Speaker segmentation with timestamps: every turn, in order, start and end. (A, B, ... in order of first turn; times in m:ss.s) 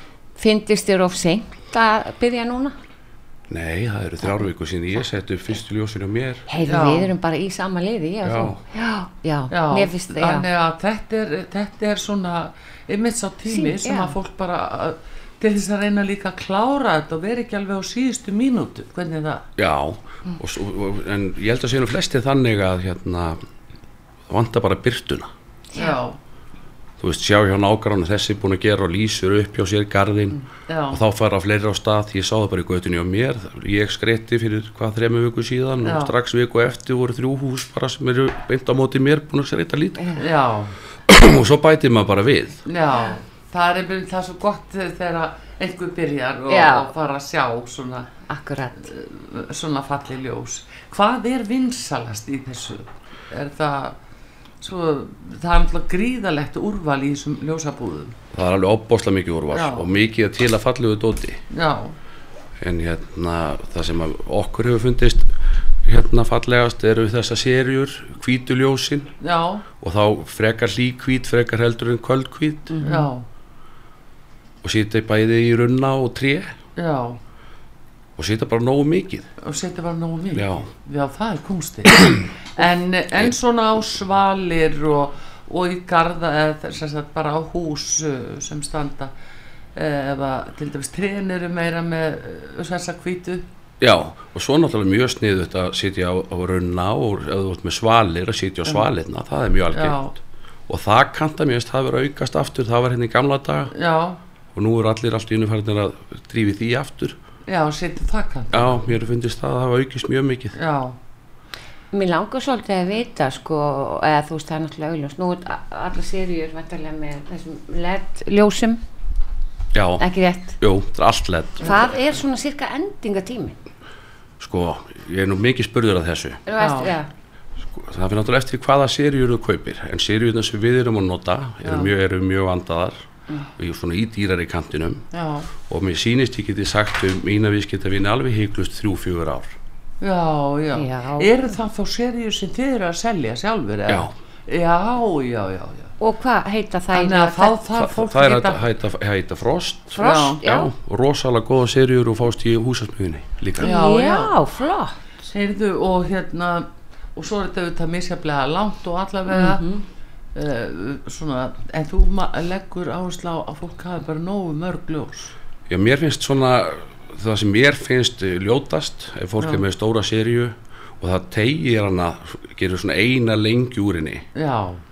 0:00.4-0:02.8 A
0:03.5-0:06.4 B
0:06.5-0:10.5 A
0:06.7-0:07.1 C
0:08.2-0:08.6 B
0:09.5-0:19.4 C
0:13.5-0:14.1 A
0:19.6-0:23.4 B
0:24.3-0:25.3 B
0:25.8-0:26.2 C
0:27.0-0:30.4 B
0:30.7-0:31.0 C
0:30.9-0:40.1 B
0:35.8-0:36.1 C
0:40.2-0:40.7 C
0:41.1-0:42.6 B
0:42.7-0:48.1 C
0:46.5-0:46.9 A
0:48.3-0:48.9 A
0:48.8-0:54.0 C
0:54.6-0:58.2 C
0:58.3-1:01.4 B
0:59.5-0:59.9 C
1:01.5-1:02.0 C
1:02.6-1:05.3 B
1:05.8-1:09.1 B
1:09.2-1:09.7 C
1:09.8-1:12.8 B
1:12.7-1:13.1 A
1:12.8-1:13.2 C
1:14.6-1:16.5 B
1:16.8-1:17.2 C
1:18.2-1:19.3 B
1:19.4-1:29.1 C
1:20.3-1:20.7 B
1:29.8-1:33.4 C
1:33.8-1:40.2 B
1:39.7-1:40.1 C
1:40.7-1:43.7 B
1:43.7-1:44.2 C
1:44.6-1:47.2 B
1:47.5-1:48.8 C
1:48.5-1:50.6 B
1:50.6-1:51.0 C
1:51.9-1:58.8 A
1:59.7-2:00.1 B
2:00.0-2:00.6 A
2:00.6-2:01.7 B
2:01.6-2:03.6 A
2:04.4-2:06.4 B
2:06.5-2:07.1 A
2:06.6-2:06.9 C
2:07.7-2:13.0 B
2:11.6-2:11.9 C
2:13.6-2:15.0 B
2:15.1-2:15.5 C
2:15.6-2:19.5 B
2:20.0-2:25.9 C
2:20.8-2:21.5 A
2:26.0-2:27.5 A
2:26.9-2:28.6 C
2:27.8-2:33.7 B
2:30.0-2:30.7 A
2:30.0-2:30.4 C
2:33.6-2:34.4 C
2:33.6-2:35.0 A
2:35.3-2:39.6 C
2:39.3-2:39.8 A
2:40.4-2:45.3 C
2:45.7-2:54.2 B
2:49.4-2:49.6 C
2:54.4-2:54.8 C